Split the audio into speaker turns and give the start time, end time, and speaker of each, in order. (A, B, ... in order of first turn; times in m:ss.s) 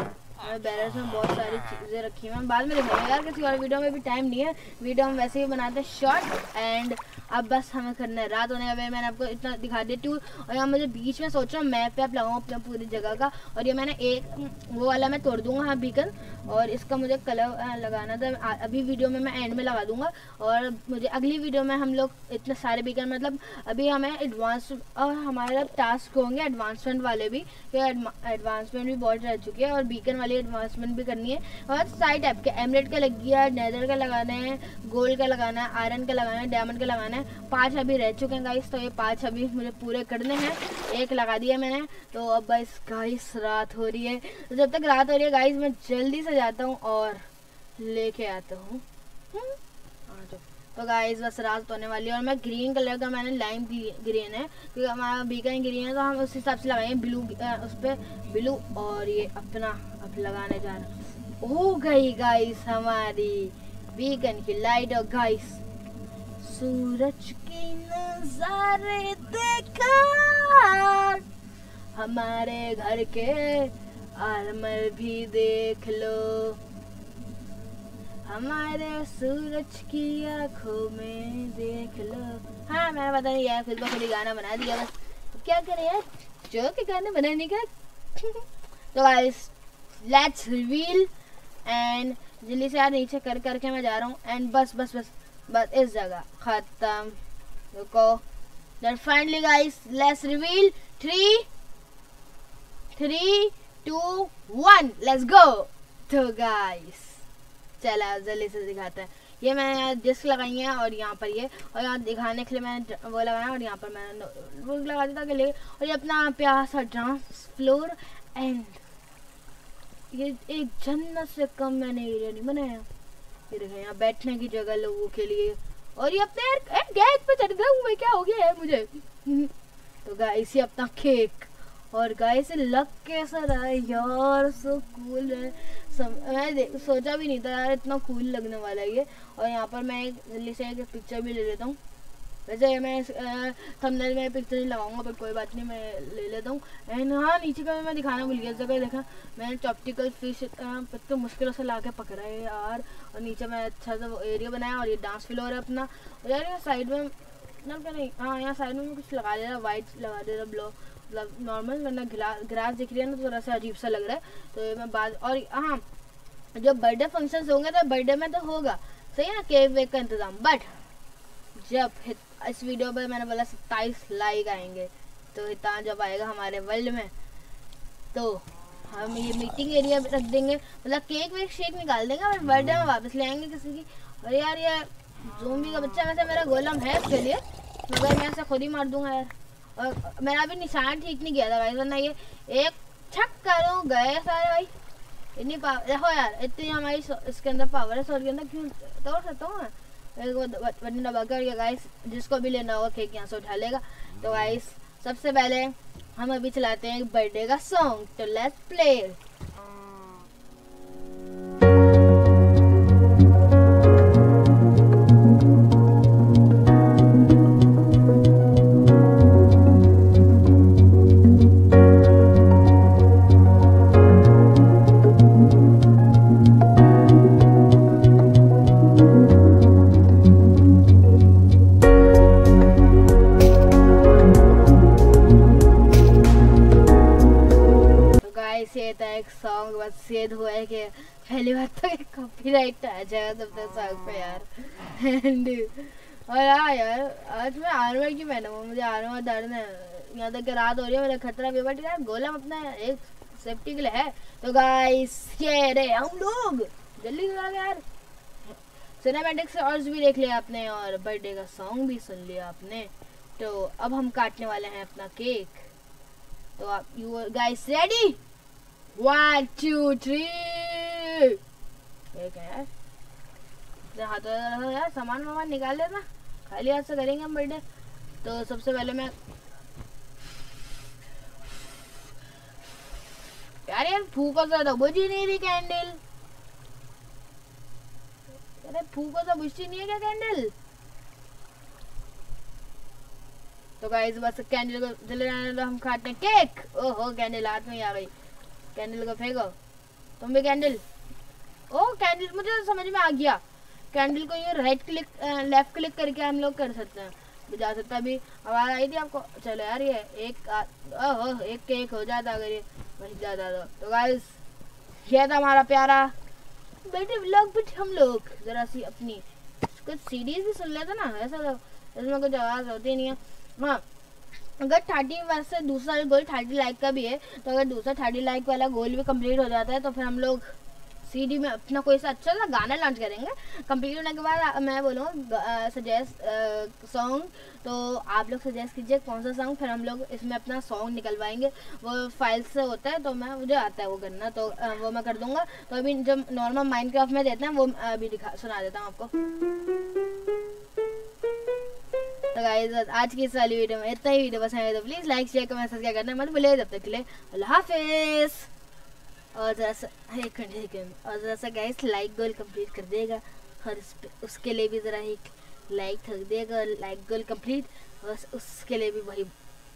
0:00.4-1:05.6 A
1:06.4-1:11.2 A
1:11.9-1:16.6 A
1:18.2-1:31.1 A
1:31.6-1:37.2 A
1:37.7-1:38.2 A
1:38.8-1:41.5 A
1:42.9-1:47.2 A
1:47.8-1:58.8 A
2:00.1-2:02.9 A
2:03.5-2:09.5 A
2:10.0-2:21.8 A
2:22.5-2:45.8 A
2:46.5-2:50.9 A
2:51.6-2:57.1 A
2:58.1-3:14.7 A
3:15.4-3:29.2 A
3:58.2-4:17.8 A
4:18.4-4:25.7 A
4:26.6-4:28.2 A
4:29.0-4:31.4 A
4:32.1-4:32.7 A
4:33.9-4:37.6 A
4:38.2-4:39.1 A
4:43.7-4:46.0 A
4:48.6-4:50.5 A
4:53.8-4:58.1 A
4:58.7-4:59.6 A
5:00.2-5:00.8 A
5:01.7-5:14.4 A
5:15.0-5:16.2 A
5:16.8-5:23.8 A
5:24.6-5:49.1 A
5:52.3-5:58.5 A
5:59.3-6:09.3 A